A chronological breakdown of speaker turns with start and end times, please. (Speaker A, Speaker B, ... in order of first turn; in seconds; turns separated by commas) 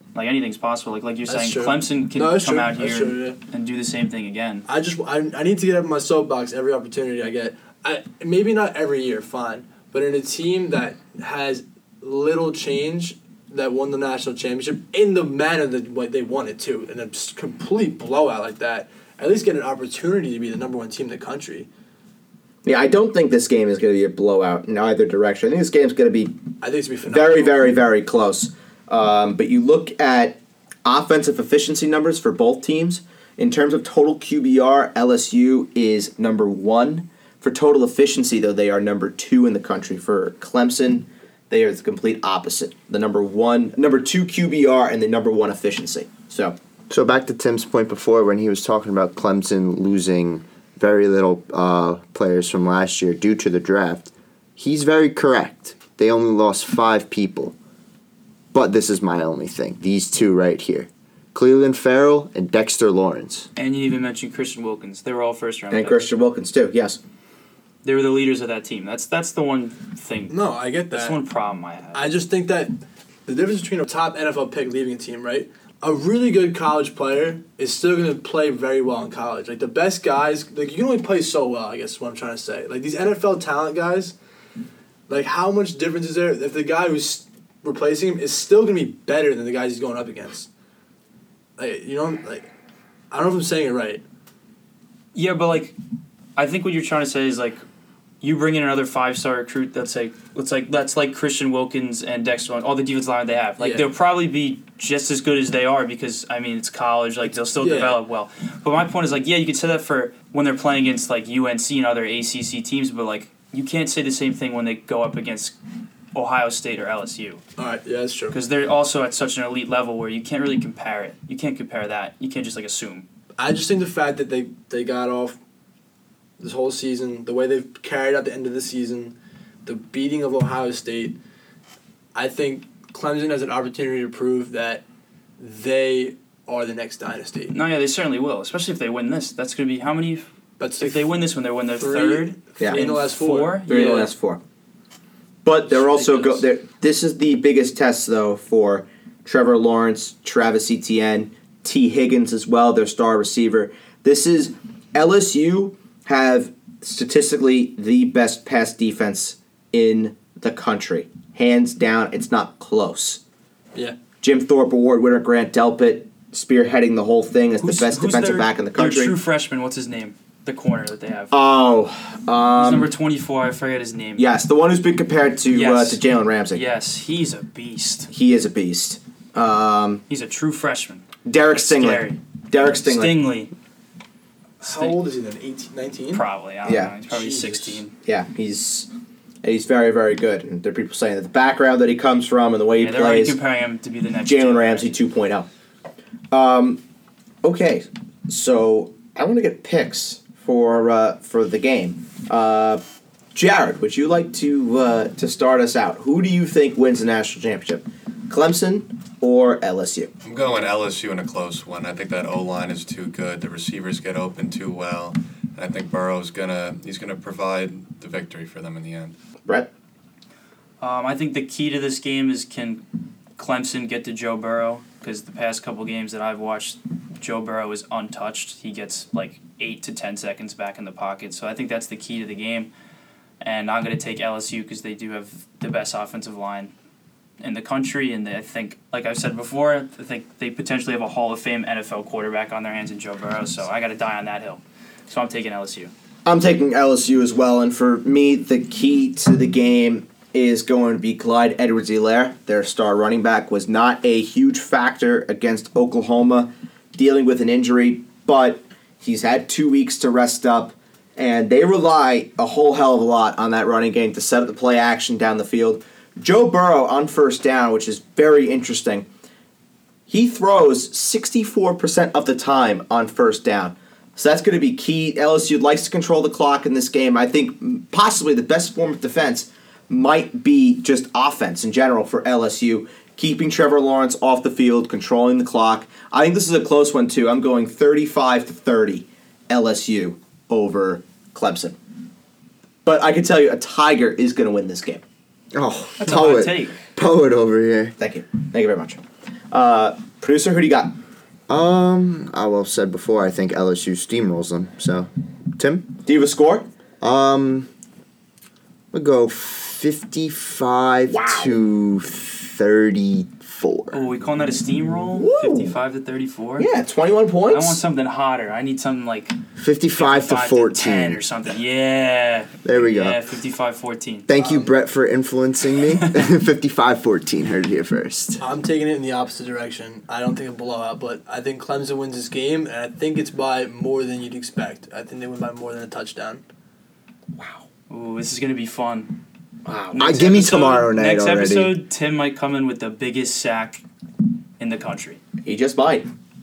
Speaker A: 0.1-4.7, Speaker B: 1.3-3.4, Speaker B: 4.7-21.7, Speaker C: 22.6-26.4, Speaker B: 26.6-27.6, Speaker C: 27.1-46.5, Speaker D: 46.9-57.5, Speaker D: 58.5-63.5, Speaker A: 63.5-66.0, Speaker C: 65.7-67.0, Speaker A: 67.8-70.3, Speaker B: 70.3-71.2, Speaker A: 70.9-72.1, Speaker B: 71.9-84.2, Speaker B: 85.1-90.5, Speaker B: 91.6-92.5, Speaker B: 93.1-94.0, Speaker A: 95.1-95.8, Speaker A: 96.3-97.6, Speaker A: 98.2-115.5, Speaker B: 103.6-103.9, Speaker B: 107.6-108.0, Speaker A: 116.1-117.4, Speaker B: 117.6-118.4, Speaker A: 118.3-123.0, Speaker B: 123.4-125.4, Speaker B: 126.4-131.2, Speaker B: 132.1-134.8, Speaker B: 135.4-137.6, Speaker A: 137.5-140.3, Speaker B: 140.6-141.2, Speaker A: 140.8-144.1, Speaker B: 141.7-143.9, Speaker C: 142.6-142.8, Speaker C: 143.7-144.4, Speaker C: 145.4-163.2, Speaker B: 145.7-146.4, Speaker C: 164.2-169.1, Speaker A: 167.6-171.3, Speaker C: 171.3-172.9, Speaker A: 172.6-174.2, Speaker C: 174.2-176.6, Speaker A: 175.5-178.1, Speaker C: 178.1-180.0, Speaker A: 180.1-183.5, Speaker C: 181.2-183.2, Speaker A: 184.6-185.0, Speaker B: 184.6-186.2, Speaker A: 186.1-187.9, Speaker C: 186.6-186.9, Speaker B: 187.1-187.8, Speaker C: 188.1-188.9, Speaker C: 189.4-193.4, Speaker A: 192.8-194.9, Speaker C: 194.2-195.5, Speaker C: 196.3-196.8, Speaker C: 197.4-202.8, Speaker C: 203.3-210.1, Speaker E: 210.2-219.1, Speaker A: 220.8-222.8, Speaker A: 223.3-232.7, Speaker A: 233.4-236.7, Speaker A: 237.4-245.9, Speaker C: 246.2-269.1, Speaker C: 270.1-291.8, Speaker C: 292.8-295.0, Speaker D: 295.5-297.9, Speaker A: 296.0-296.8, Speaker C: 298.0-299.0, Speaker C: 299.5-300.9, Speaker D: 301.5-305.9, Speaker C: 306.1-306.7, Speaker D: 307.0-307.7, Speaker D: 308.9-314.0, Speaker C: 311.1-311.6, Speaker A: 313.9-316.7, Speaker C: 315.1-315.8, Speaker C: 316.6-317.8, Speaker A: 317.5-319.4, Speaker D: 319.6-321.2, Speaker A: 319.9-324.3, Speaker D: 322.6-323.2, Speaker D: 324.3-328.4, Speaker B: 324.3-324.7, Speaker A: 326.0-326.3, Speaker B: 328.4-336.4, Speaker C: 337.4-337.6, Speaker A: 337.9-339.2, Speaker C: 339.6-340.1, Speaker A: 339.9-343.8, Speaker D: 340.0-341.8, Speaker A: 344.6-345.2, Speaker C: 345.4-346.1